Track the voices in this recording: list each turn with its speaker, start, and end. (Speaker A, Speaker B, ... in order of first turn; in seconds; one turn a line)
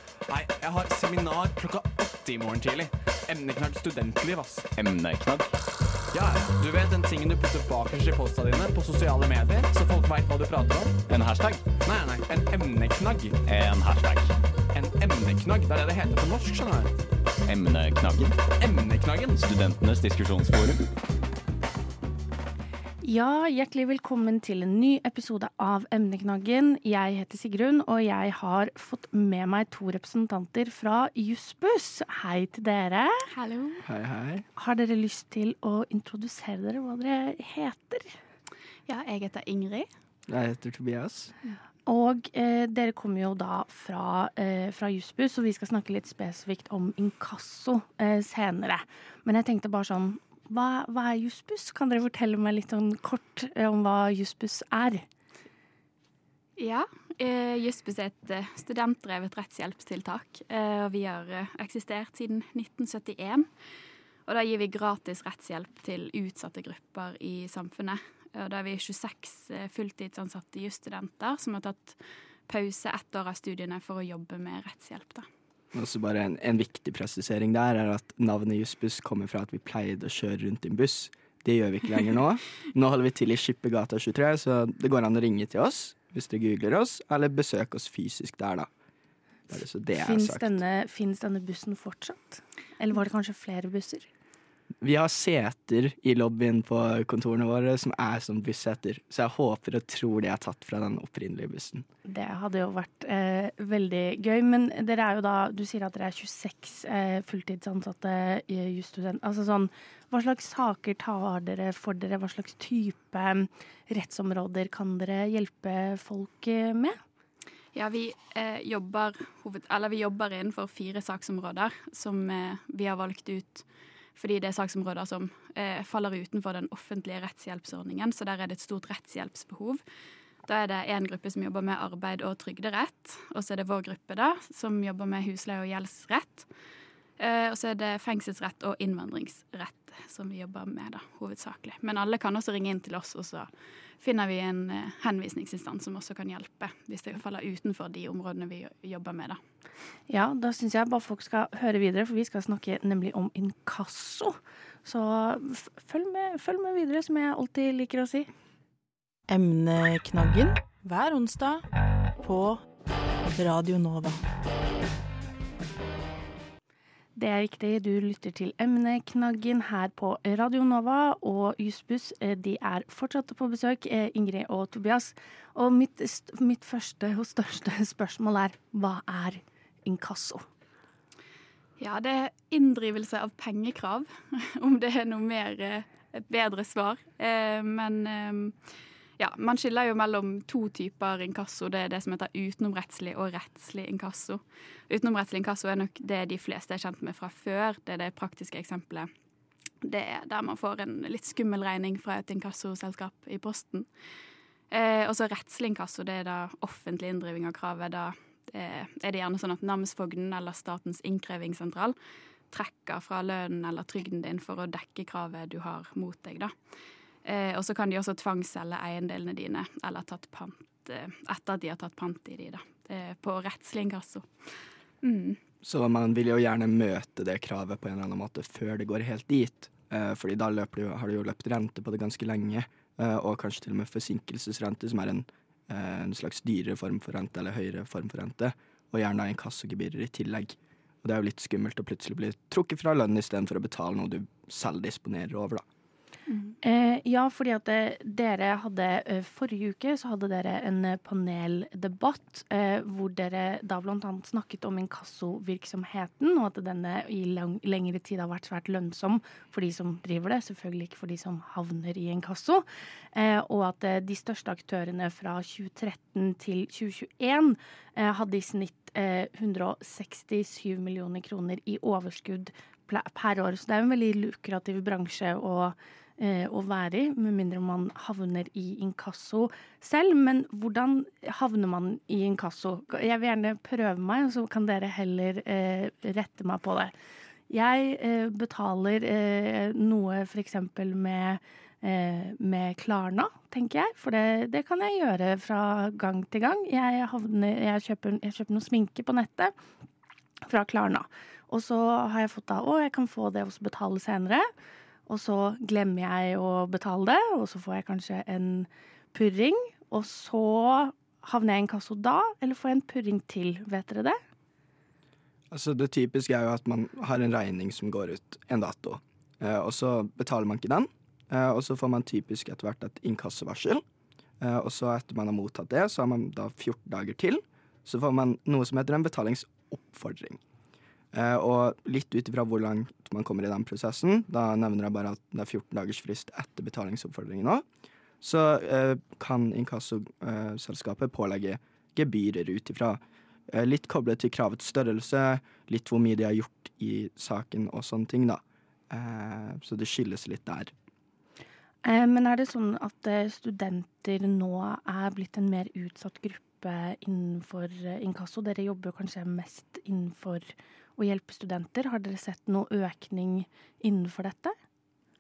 Speaker A: 0.3-4.7
Speaker B: 4.8-5.6
Speaker A: 6.1-11.0
Speaker B: 11.1-11.7
Speaker A: 11.8-13.4
Speaker B: 13.5-14.4
Speaker A: 14.7-17.1
Speaker B: 17.4-18.4
Speaker A: 18.5-19.5
Speaker B: 19.5-20.9
Speaker C: 23.0-33.3
Speaker D: 33.3-33.8
Speaker E: 33.8-34.5
Speaker C: 34.6-38.2
Speaker D: 38.9-39.9
Speaker E: 40.3-41.3
Speaker C: 41.9-55.0
Speaker D: 56.6-63.5
Speaker D: 64.3-75.3
Speaker E: 75.7-88.7
Speaker E: 89.5-90.6
Speaker C: 90.0-94.1
Speaker E: 94.8-101.9
Speaker C: 102.0-117.0
Speaker D: 117.7-123.7
Speaker D: 124.2-129.8
Speaker D: 130.4-136.5
Speaker D: 137.2-143.5
Speaker D: 144.0-149.4
Speaker C: 150.1-158.3
Speaker F: 159.3-161.6
Speaker F: 162.2-162.6
Speaker F: 163.4-164.2
Speaker C: 167.2-180.5
Speaker D: 181.8-188.6
Speaker D: 189.2-199.1
Speaker D: 199.8-203.9
Speaker D: 204.7-212.0
Speaker D: 212.5-216.5
Speaker D: 217.2-224.3
Speaker D: 225.0-225.4
Speaker E: 225.6-245.7
Speaker C: 246.6-286.9
Speaker C: 287.5-299.5
Speaker C: 300.5-304.5
Speaker C: 305.1-314.2
Speaker E: 315.5-323.8
Speaker E: 324.4-330.4
Speaker E: 331.1-337.6
Speaker E: 338.2-343.0
Speaker E: 343.5-350.7
Speaker C: 351.8-364.6